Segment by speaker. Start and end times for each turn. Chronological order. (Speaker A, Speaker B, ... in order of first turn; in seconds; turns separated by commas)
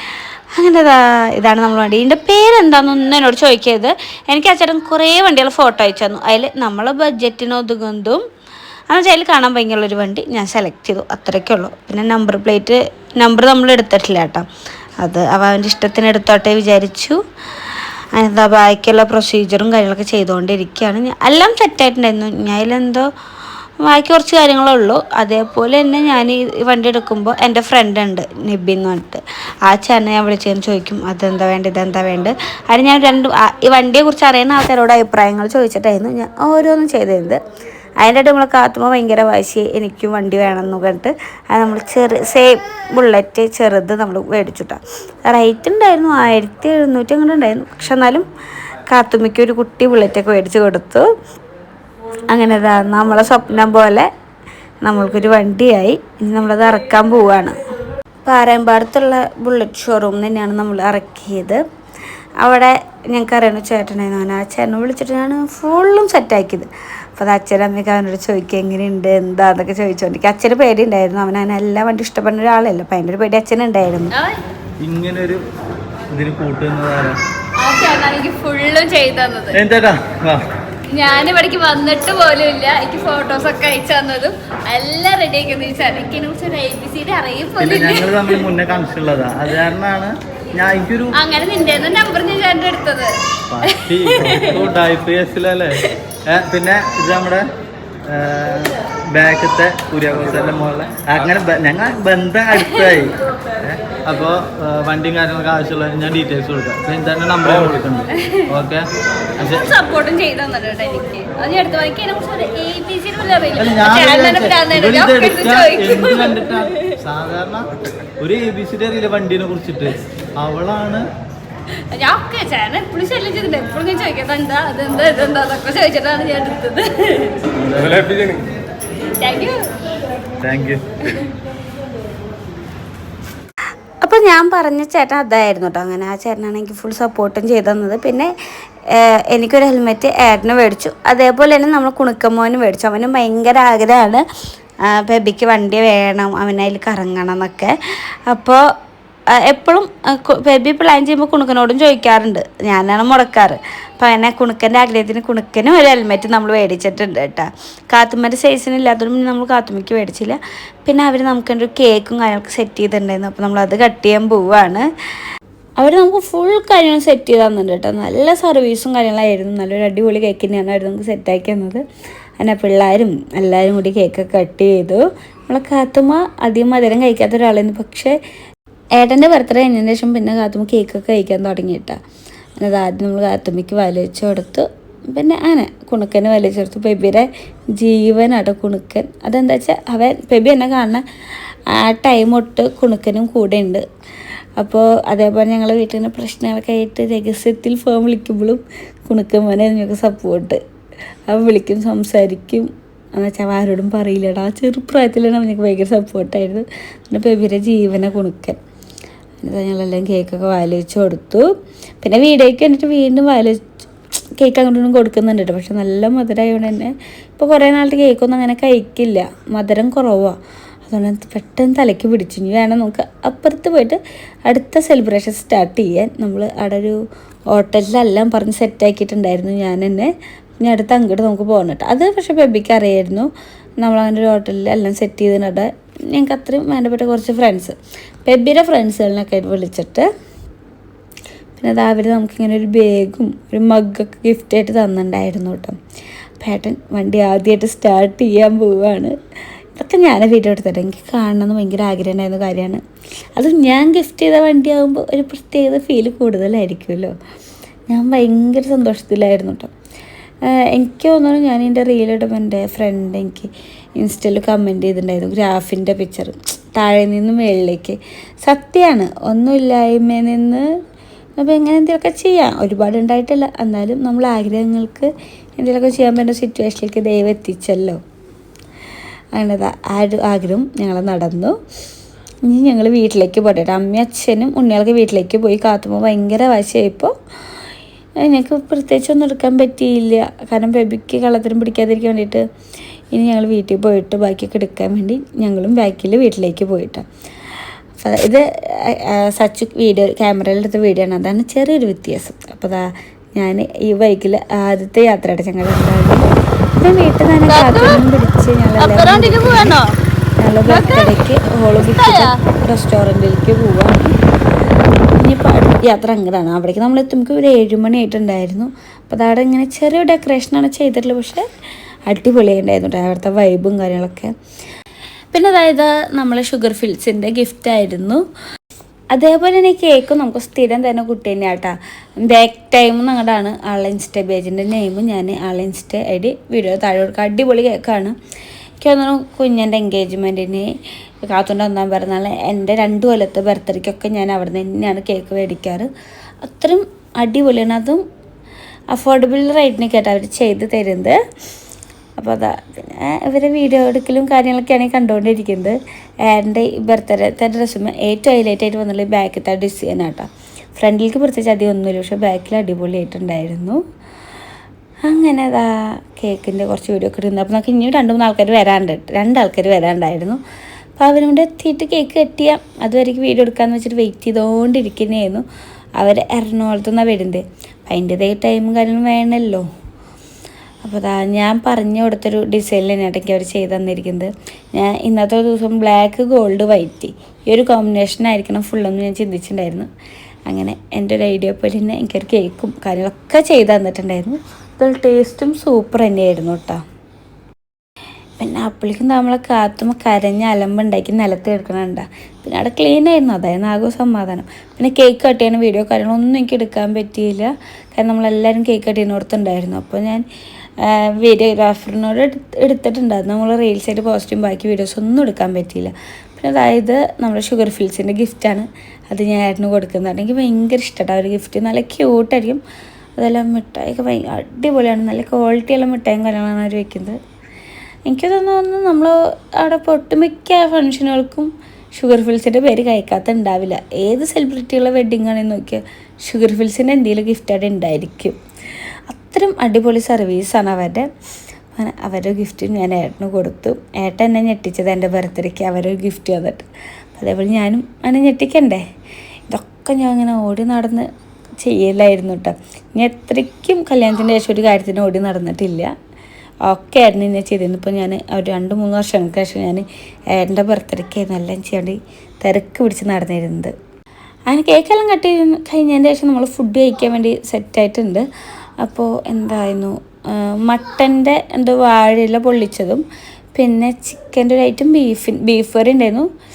Speaker A: 0.6-8.2, Speaker A: 8.9-14.5, Speaker A: 15.0-17.2, Speaker A: 18.1-23.1, Speaker A: 23.8-37.4, Speaker A: 38.0-48.3, Speaker A: 48.8-51.1, Speaker A: 52.2-54.1, Speaker A: 54.8-57.6, Speaker A: 58.2-61.6, Speaker A: 62.4-74.1, Speaker B: 74.1-74.4, Speaker C: 74.8-75.4, Speaker C: 76.1-77.2, Speaker B: 77.6-79.6, Speaker C: 79.5-80.5, Speaker B: 80.9-88.5, Speaker C: 87.6-91.1, Speaker B: 91.2-93.1, Speaker C: 93.5-97.5, Speaker B: 93.8-94.7, Speaker C: 98.1-108.8, Speaker B: 102.5-103.0, Speaker C: 109.4-109.7, Speaker B: 109.4-116.7, Speaker C: 113.6-117.7, Speaker C: 118.2-121.0, Speaker B: 121.9-127.5, Speaker C: 127.5-128.4, Speaker B: 129.1-129.7, Speaker C: 130.4-131.1, Speaker A: 134.0-138.3, Speaker A: 138.9-144.2, Speaker A: 144.9-147.7, Speaker A: 148.3-148.6, Speaker A: 149.4-164.8, Speaker A: 165.8-171.8, Speaker A: 172.4-178.1, Speaker A: 179.0-182.0, Speaker A: 182.6-191.0, Speaker A: 191.7-193.8, Speaker A: 194.6-200.6, Speaker A: 201.3-208.6, Speaker A: 209.4-211.4, Speaker A: 212.0-213.7, Speaker A: 214.4-220.3, Speaker A: 220.8-227.0, Speaker A: 227.5-230.1, Speaker A: 230.6-233.3, Speaker A: 233.8-240.1, Speaker A: 241.6-245.8, Speaker A: 246.4-249.1, Speaker A: 249.8-252.8, Speaker A: 253.3-257.1, Speaker A: 257.9-259.7, Speaker A: 260.5-270.6, Speaker A: 271.4-278.0, Speaker A: 279.3-281.6, Speaker A: 282.5-287.1, Speaker A: 288.2-292.4, Speaker A: 293.1-297.0, Speaker A: 298.0-306.3, Speaker A: 306.8-309.8, Speaker B: 307.5-308.0, Speaker B: 308.8-309.9, Speaker A: 310.4-314.1, Speaker B: 310.7-311.1, Speaker B: 311.8-312.4, Speaker A: 315.2-321.4, Speaker A: 322.1-324.3, Speaker A: 325.3-328.2, Speaker A: 329.1-338.1, Speaker A: 338.8-340.7, Speaker A: 341.2-345.9, Speaker A: 346.4-348.0, Speaker A: 348.9-351.2, Speaker A: 352.2-355.8, Speaker A: 356.3-363.8, Speaker A: 365.1-370.4, Speaker A: 371.0-375.4, Speaker A: 376.0-379.6, Speaker A: 380.8-389.9, Speaker A: 390.5-396.8, Speaker A: 398.4-410.2, Speaker A: 410.8-422.6, Speaker A: 423.2-427.2, Speaker A: 428.1-438.4, Speaker A: 439.1-441.1, Speaker A: 441.8-448.8, Speaker A: 449.5-451.1, Speaker A: 451.6-455.9, Speaker A: 456.7-463.7, Speaker A: 464.5-468.2, Speaker A: 468.8-473.0, Speaker A: 473.5-476.3